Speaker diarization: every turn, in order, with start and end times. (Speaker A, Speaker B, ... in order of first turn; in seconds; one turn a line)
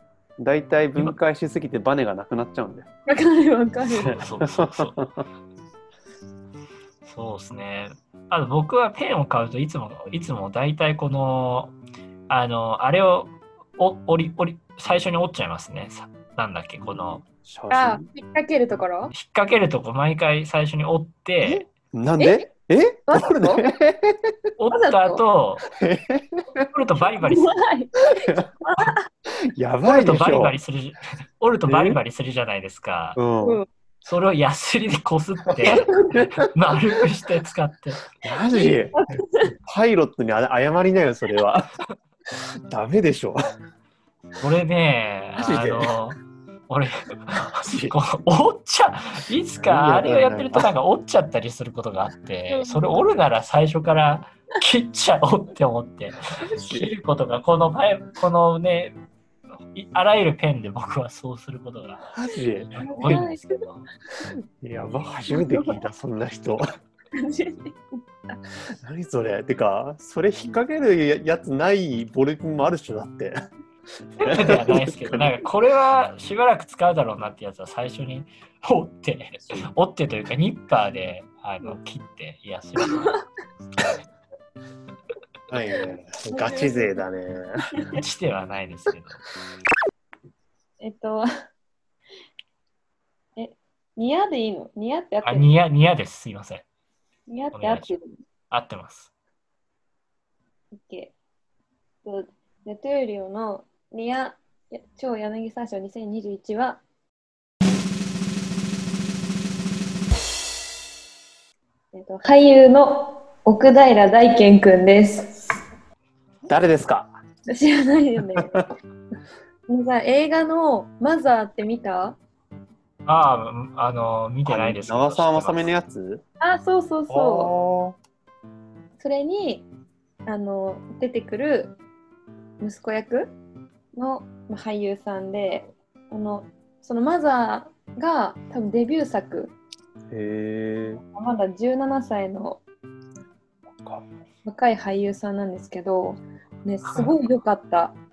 Speaker A: 0.4-2.9
Speaker B: 3.1-4.2
Speaker C: 4.0-5.0
Speaker A: 4.0-5.2
Speaker C: 7.0-11.8
Speaker C: 12.3-17.2
Speaker A: 16.8-18.1
Speaker B: 17.7-19.1
Speaker C: 19.1-21.7
Speaker A: 21.4-24.3
Speaker B: 23.1-23.7
Speaker C: 24.6-25.7
Speaker B: 24.7-25.2
Speaker A: 25.8-26.4
Speaker C: 26.6-27.6
Speaker B: 27.2-29.0
Speaker A: 28.1-28.4
Speaker A: 29.6-30.6
Speaker C: 29.9-33.2
Speaker A: 31.7-32.0
Speaker A: 33.2-33.6
Speaker B: 33.4-33.7
Speaker C: 34.0-38.0
Speaker A: 35.6-36.5
Speaker B: 35.6-36.2
Speaker A: 38.2-39.1
Speaker B: 38.5-39.5
Speaker A: 39.6-41.7
Speaker A: 42.3-43.4
Speaker C: 44.4-46.2
Speaker A: 45.4-45.9
Speaker C: 46.7-59.0
Speaker A: 47.6-48.0
Speaker A: 49.6-50.7
Speaker B: 52.5-53.0
Speaker A: 56.5-56.9
Speaker C: 59.7-63.9
Speaker A: 62.1-63.2
Speaker B: 62.8-63.6
Speaker A: 64.6-66.6
Speaker B: 65.3-65.8
Speaker B: 67.2-68.4
Speaker A: 68.8-73.3
Speaker A: 74.2-75.3
Speaker C: 74.2-83.2
Speaker A: 85.5-87.7
Speaker B: 86.3-87.0
Speaker C: 87.9-89.2
Speaker B: 90.8-91.3
Speaker B: 93.4-95.5
Speaker C: 95.2-96.7
Speaker B: 97.3-98.1
Speaker C: 97.5-98.0
Speaker C: 98.5-99.1
Speaker B: 100.7-101.1
Speaker B: 102.0-106.8
Speaker B: 111.9-115.5
Speaker A: 116.5-117.1
Speaker B: 117.5-118.6
Speaker B: 119.7-122.2
Speaker C: 123.1-125.7
Speaker A: 124.5-126.2
Speaker B: 126.4-127.5
Speaker A: 127.1-128.0
Speaker B: 129.0-129.7
Speaker B: 130.3-131.8
Speaker B: 132.6-133.3
Speaker B: 133.9-139.5
Speaker A: 140.1-141.0
Speaker B: 141.1-142.6
Speaker B: 144.4-148.0
Speaker C: 146.8-147.2